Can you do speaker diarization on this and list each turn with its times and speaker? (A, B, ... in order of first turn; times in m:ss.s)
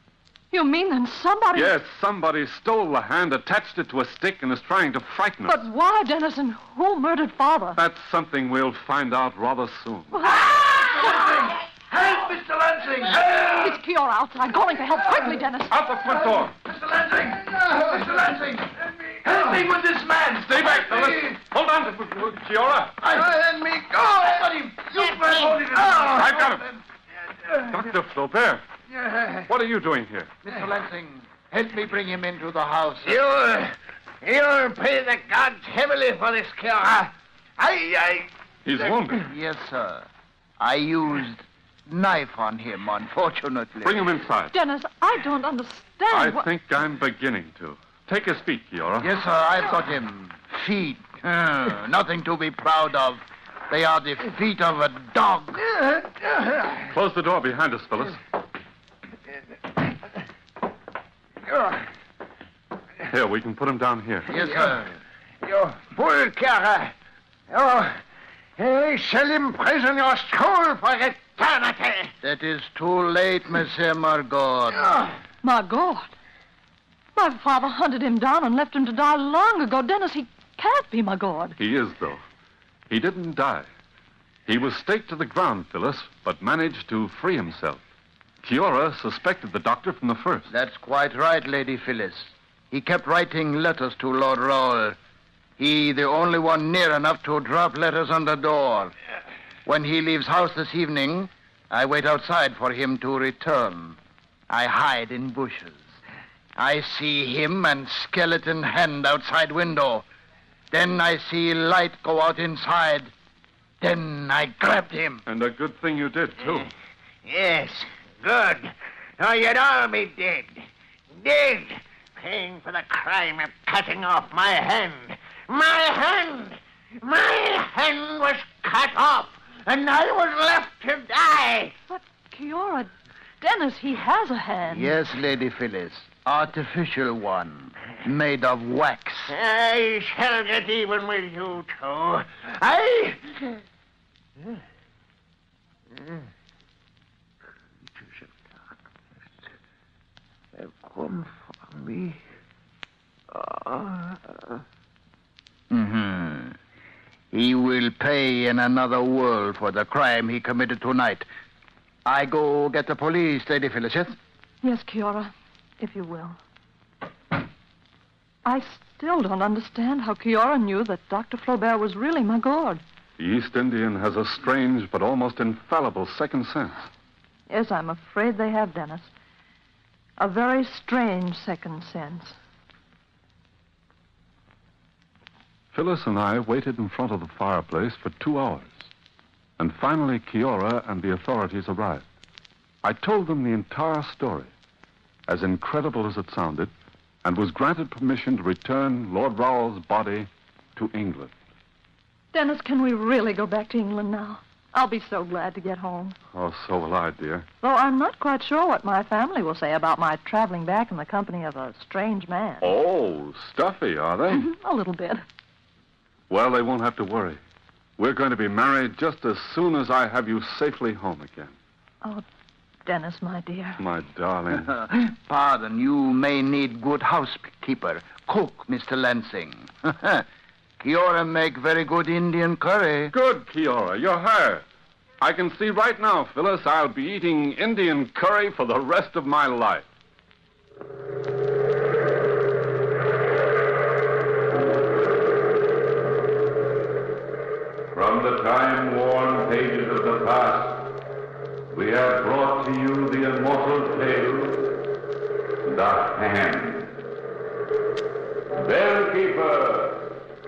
0:00.5-0:01.7 A
0:01.5-0:05.6 B
0:05.4-0:07.8 A
0:07.8-0:10.3 B
0:10.1-0:10.6 A
0:10.3-0:13.7 C
0:13.3-0:15.8 A
0:15.7-0:16.5 B
0:16.2-0:21.3 C
0:20.4-0:23.0 B
0:23.0-0:26.7 C
0:25.0-0:26.1 D
0:26.1-0:26.7 B
0:27.6-0:28.6 B
0:29.0-0:29.4 C
0:29.4-0:30.3 B
0:30.4-0:33.2 C
0:33.1-0:38.3 D
0:38.6-0:39.2 B
0:39.2-0:40.1 C
0:40.6-0:44.0 C
0:43.8-0:44.5 B
0:44.5-0:46.5 A
0:46.1-0:49.1 B
0:49.0-0:55.8 C
0:56.9-0:58.2 B
1:01.5-1:01.8 D
1:03.1-1:04.3 B
1:04.3-1:04.9 C
1:04.3-1:04.8 D
1:05.4-1:06.9 D
1:07.5-1:08.0 D
1:08.6-1:12.1 D
1:12.2-1:14.9 C
1:15.4-1:16.1 A
1:17.2-1:21.6 A
1:21.6-1:22.2 B
1:22.9-1:23.6 B
1:24.5-1:27.8 B
1:28.4-1:30.5 B
1:30.5-1:35.0 C
1:35.6-1:38.9 C
1:39.6-1:44.0 C
1:44.5-1:45.8 C
1:46.6-1:50.0 C
1:50.7-1:53.1 C
1:53.8-1:55.2 C
1:55.2-1:56.7 B
1:57.2-2:00.6 D
2:01.2-2:11.7 D
2:11.9-2:12.9 A
2:13.4-2:15.0 A
2:14.7-2:19.3 C
2:19.3-2:23.6 D
2:26.0-2:26.2 D
2:27.9-2:28.8 D
2:30.6-2:32.2 D
2:33.3-2:34.6 D
2:35.7-2:36.6 C
2:37.3-2:41.2 C
2:42.0-2:44.1 C
2:44.6-2:46.4 A
2:48.4-2:52.8 A
2:53.2-2:56.8 B
2:57.5-2:59.1 A
3:00.2-3:02.4 A
3:05.7-3:08.9 B
3:09.6-3:12.0 B
3:12.8-3:14.5 B
3:15.3-3:16.7 B
3:17.2-3:21.3 B
3:22.3-3:26.2 A
3:26.3-3:27.4 B
3:27.6-3:32.7 A
3:32.6-3:34.5 B
3:34.3-3:35.2 A
3:36.3-3:37.4 B
3:38.0-3:41.5 B
3:42.8-3:43.8 A
3:43.8-3:44.8 B
3:44.6-3:50.2 C
3:50.8-3:53.1 C
3:53.1-3:54.6 B
3:55.2-3:59.8 B
4:07.9-4:10.9 E
4:11.7-4:14.8 E
4:15.6-4:16.9 E
4:18.5-4:20.1 E